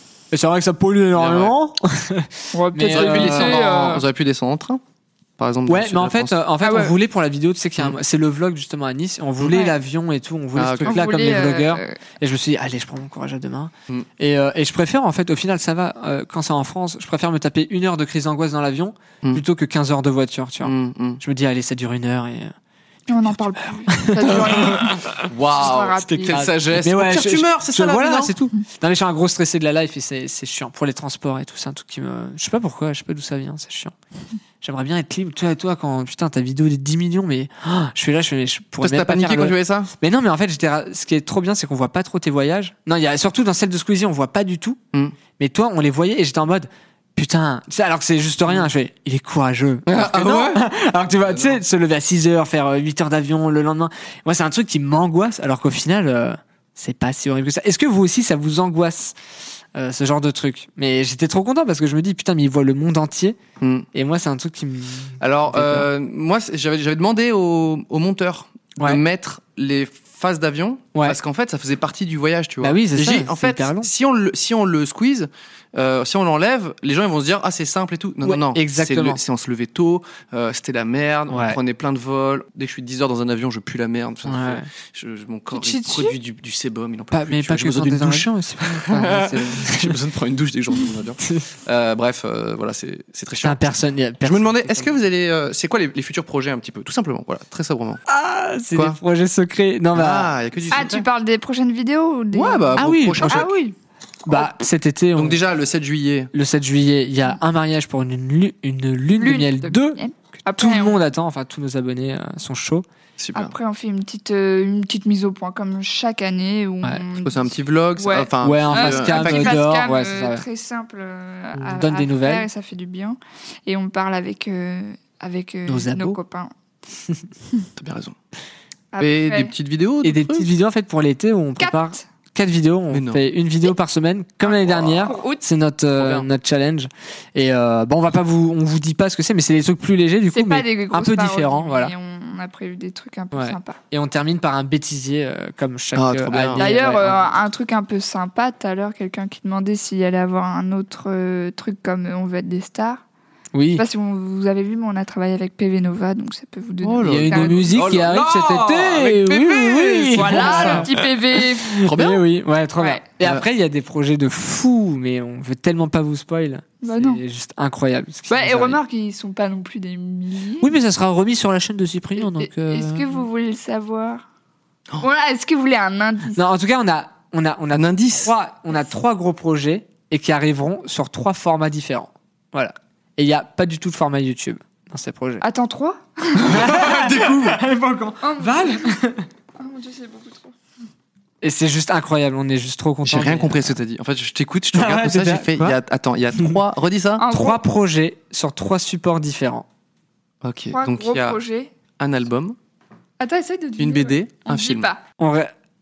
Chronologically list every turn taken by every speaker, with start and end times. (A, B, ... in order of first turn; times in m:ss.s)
0:00.3-0:03.9 A
0:01.1-0:01.5 B
0:02.5-0:04.0 C
0:02.9-0:04.8 B
0:05.4-0:06.3 B
0:05.7-0:22.5 A
0:06.6-0:06.9 C
0:09.5-0:09.7 C
0:10.6-0:11.0 B
0:10.8-0:12.0 C
0:20.6-0:21.2 B
0:23.1-0:26.4 C
0:23.9-0:25.2 A
0:24.2-0:28.3 B
0:26.0-0:33.9 A
0:34.6-0:44.8 A
0:38.8-0:39.9 B
0:45.4-0:59.1 A
0:49.9-0:50.7 B
0:51.2-0:51.6 B
0:59.7-1:03.4 A
1:03.6-1:03.9 B
1:03.9-1:05.9 A
1:05.2-1:33.7 B
1:12.6-1:13.9 A
1:18.2-1:19.2 A
1:21.3-1:21.6 A
1:24.3-1:24.7 A
1:25.5-1:26.2 C
1:27.1-1:30.0 A
1:33.4-1:34.9 A
1:34.2-1:38.0 B
1:38.1-1:40.3 A
1:38.7-1:39.0 B
1:39.9-1:41.0 B
1:40.7-1:43.7 C
1:42.3-1:43.5 B
1:42.8-1:43.7 A
1:44.2-1:45.4 A
1:45.2-1:46.3 B
1:46.3-1:50.0 A
1:49.2-1:51.0 C
1:50.5-1:52.8 A
1:53.2-1:53.5 B
1:53.3-2:06.5 C
1:57.2-1:59.6 B
1:58.4-2:00.4 A
2:01.6-2:02.4 A
2:05.7-2:06.2 A
2:07.8-2:08.2 B
2:08.9-2:09.5 C
2:09.0-2:10.5 B
2:10.0-2:21.9 A
2:11.6-2:12.0 C
2:12.9-2:13.2 B
2:14.4-2:15.4 C
2:14.7-2:15.1 B
2:16.0-2:16.3 B
2:20.3-2:23.8 C
2:23.3-2:27.3 A
2:25.9-2:26.7 B
2:26.6-2:33.0 C
2:33.5-2:33.8 A
2:33.7-2:37.8 C
2:36.8-2:41.0 B
2:37.0-2:40.9 A
2:40.1-2:42.0 C
2:41.7-2:48.8 A
2:41.8-2:42.2 B
2:42.8-2:43.0 C
2:46.8-2:47.2 C
2:48.3-2:50.7 C
2:50.6-2:53.2 A
2:52.2-2:54.2 C
2:55.0-2:56.4 C
2:56.3-3:05.4 A
2:57.7-2:58.3 B
3:05.4-3:06.4 C
3:06.4-3:07.6 B
3:06.5-3:09.2 A
3:08.2-3:08.9 C
3:09.6-3:10.5 C
3:11.4-3:13.8 A
3:13.0-3:17.2 B
3:14.7-3:15.8 A
3:17.2-3:17.6 C
3:17.3-3:19.6 A
3:20.4-3:21.4 B
3:20.7-3:21.7 C
3:22.0-3:22.6 B
3:23.2-3:25.0 C
3:23.8-3:24.9 B
3:25.2-3:25.5 A